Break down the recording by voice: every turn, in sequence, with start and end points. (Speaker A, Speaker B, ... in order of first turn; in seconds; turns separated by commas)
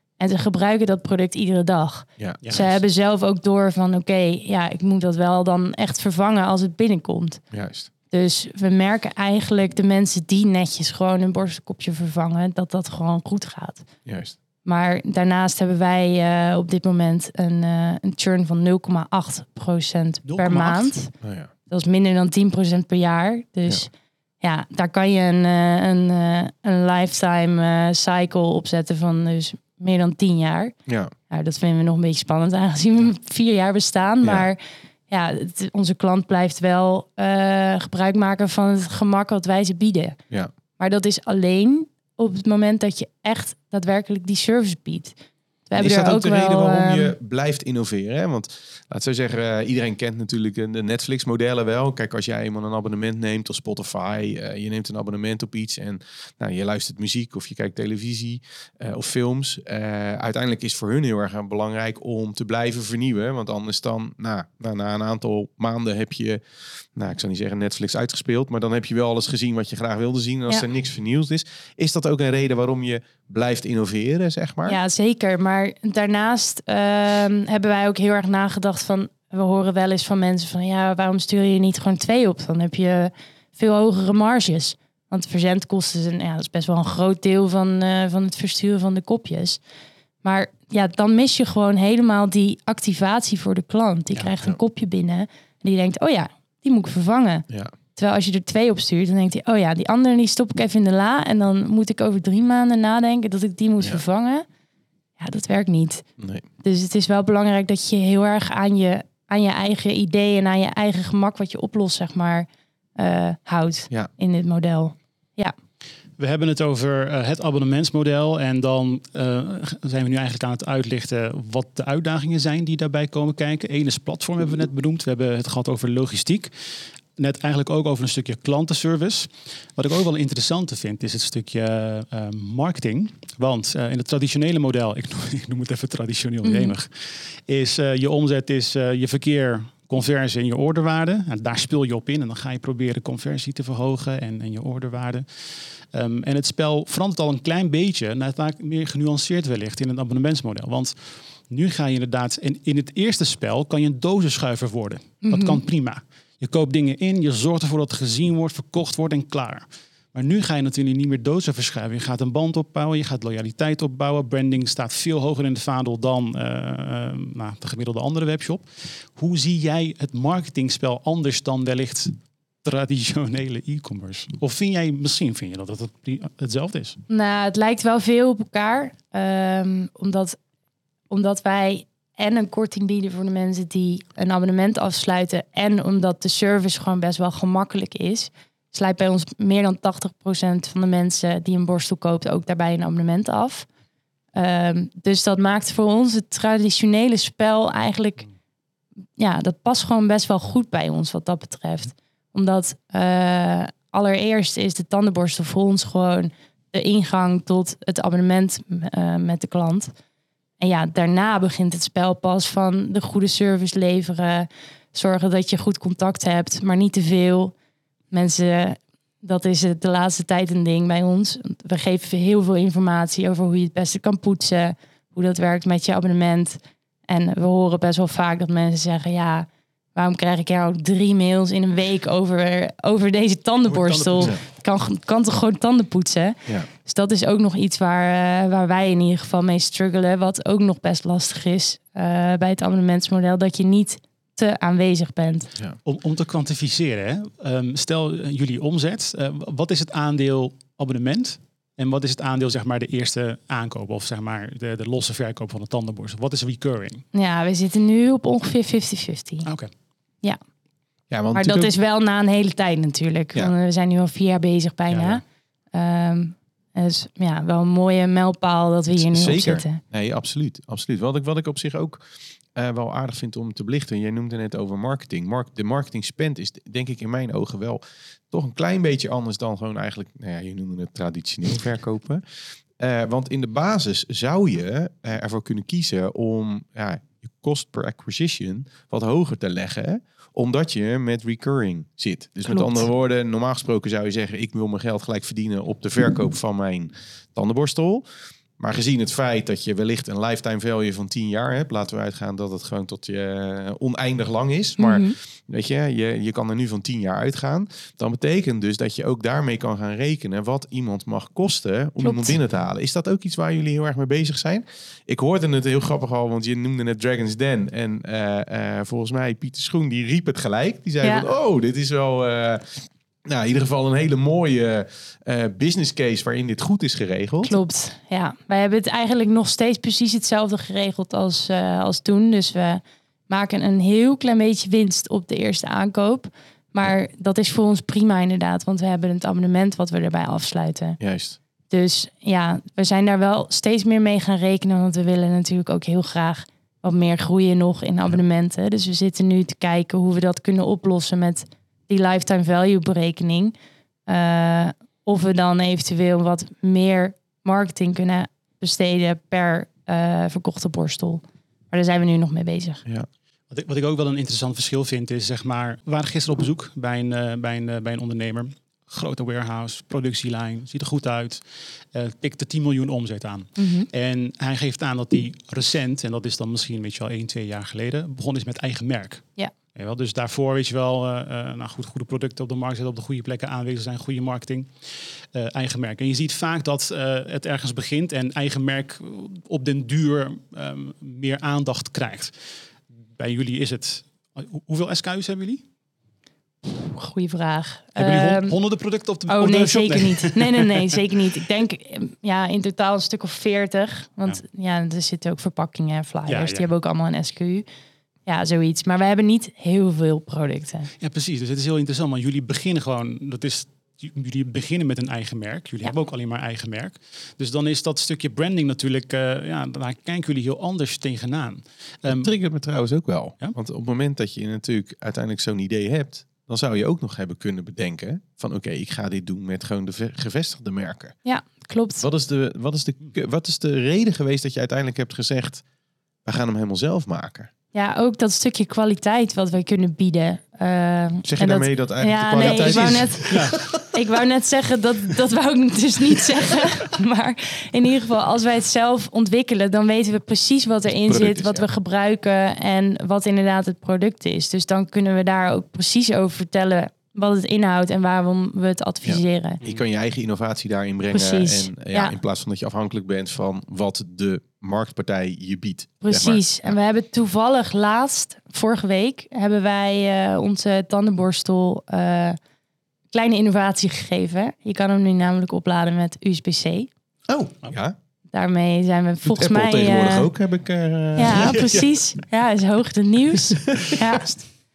Speaker A: 0.2-7.4, Speaker B: 2.4-2.8, Speaker C: 7.5-7.9, Speaker A: 8.1-13.9, Speaker C: 14.1-14.4, Speaker A: 14.6-21.1, Speaker B: 20.2-21.0, Speaker C: 21.2-21.5, Speaker A: 21.7-30.7, Speaker C: 30.9-31.1, Speaker A: 31.3-40.2, Speaker A: 40.8-45.1, Speaker A: 45.7-47.1, Speaker C: 45.8-66.4, Speaker C: 67.0-74.8, Speaker A: 74.7-89.6, Speaker A: 90.2-104.5, Speaker A: 105.2-106.1, Speaker C: 106.2-106.5, Speaker A: 106.6-115.5, Speaker B: 116.2-177.0, Speaker A: 136.4-136.7, Speaker A: 155.2-155.6, Speaker A: 177.1-180.4, Speaker A: 181.1-193.7, Speaker A: 194.3-198.2, Speaker A: 199.2-209.9, Speaker A: 210.6-217.5, Speaker A: 218.1-245.5, Speaker B: 233.7-234.3, Speaker B: 245.8-257.0, Speaker A: 257.1-259.5, Speaker B: 259.4-259.7, Speaker C: 261.1-261.7, Speaker A: 261.3-265.2, Speaker B: 264.9-265.2, Speaker A: 265.7-269.8, Speaker C: 268.9-272.0, Speaker C: 272.6-282.2, Speaker C: 282.8-298.1, Speaker A: 292.5-292.8, Speaker C: 298.6-327.6, Speaker A: 304.8-305.1, Speaker A: 312.1-312.3, Speaker A: 321.0-321.3, Speaker A: 327.4-341.0, Speaker C: 341.0-341.4, Speaker A: 341.7-353.6, Speaker A: 354.1-362.8, Speaker B: 363.5-392.6, Speaker A: 373.6-373.9, Speaker B: 393.1-395.6, Speaker A: 396.6-398.6, Speaker B: 398.0-400.9, Speaker A: 399.3-407.6, Speaker B: 406.3-406.7, Speaker A: 408.3-410.9, Speaker B: 411.0-422.3, Speaker C: 422.1-431.2, Speaker A: 431.2-432.1, Speaker C: 432.0-435.6, Speaker C: 436.2-437.5, Speaker A: 437.7-459.6, Speaker C: 441.2-443.8, Speaker B: 442.4-443.6, Speaker C: 451.1-451.6, Speaker C: 459.0-466.7, Speaker A: 461.1-462.2, Speaker A: 466.0-472.4, Speaker A: 473.1-476.9, Speaker C: 477.3-478.0, Speaker A: 478.3-480.3, Speaker C: 479.2-481.8, Speaker A: 481.2-484.4, Speaker B: 481.3-481.8